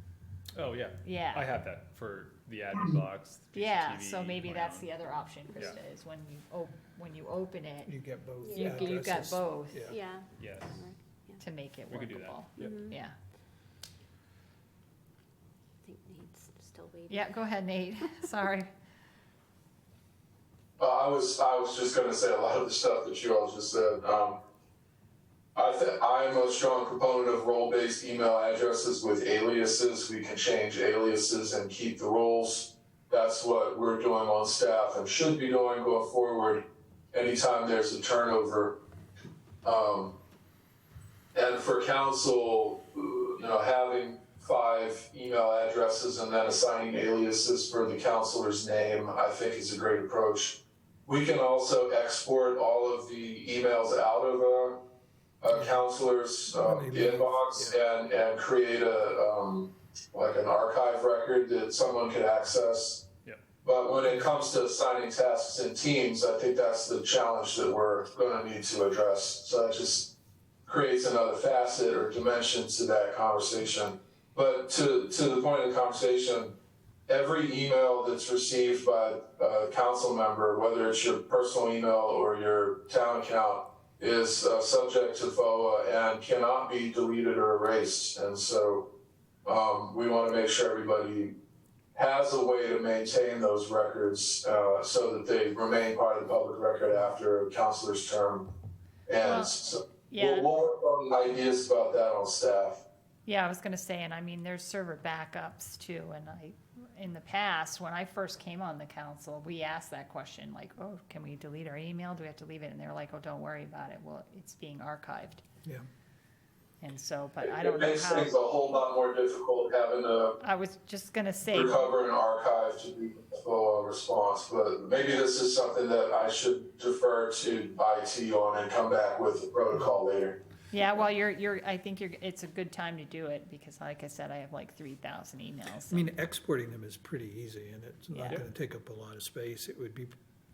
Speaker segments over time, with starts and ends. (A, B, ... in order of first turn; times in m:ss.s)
0:00.5-0:04.9 A
0:01.0-0:01.5 B
0:03.5-0:07.9 B
0:05.5-0:05.8 A
0:07.8-0:10.0 C
0:08.4-0:08.9 D
0:08.5-0:09.9 B
0:09.8-0:11.4 D
0:10.4-0:10.8 A
0:11.4-0:13.1 B
0:11.9-0:12.8 A
0:12.6-0:13.0 D
0:15.8-0:17.4 D
0:17.1-0:18.7 B
0:20.8-0:24.4 E
0:25.5-0:38.8 E
0:39.6-0:40.2 E
0:41.3-0:54.8 E
0:55.4-1:03.0 E
0:55.5-0:55.8 C
0:56.5-0:57.8 C
1:03.6-1:10.1 E
1:10.6-1:16.6 E
1:17.1-1:28.9 E
1:29.4-1:31.3 E
1:31.9-1:38.5 E
1:39.1-1:42.8 E
1:39.2-1:40.5 B
1:43.2-1:55.4 B
1:56.8-1:58.3 B
1:57.4-2:00.4 E
2:00.4-2:01.9 B
2:01.5-2:10.4 E
2:10.7-2:16.1 B
2:15.9-2:20.2 C
2:18.1-2:18.4 B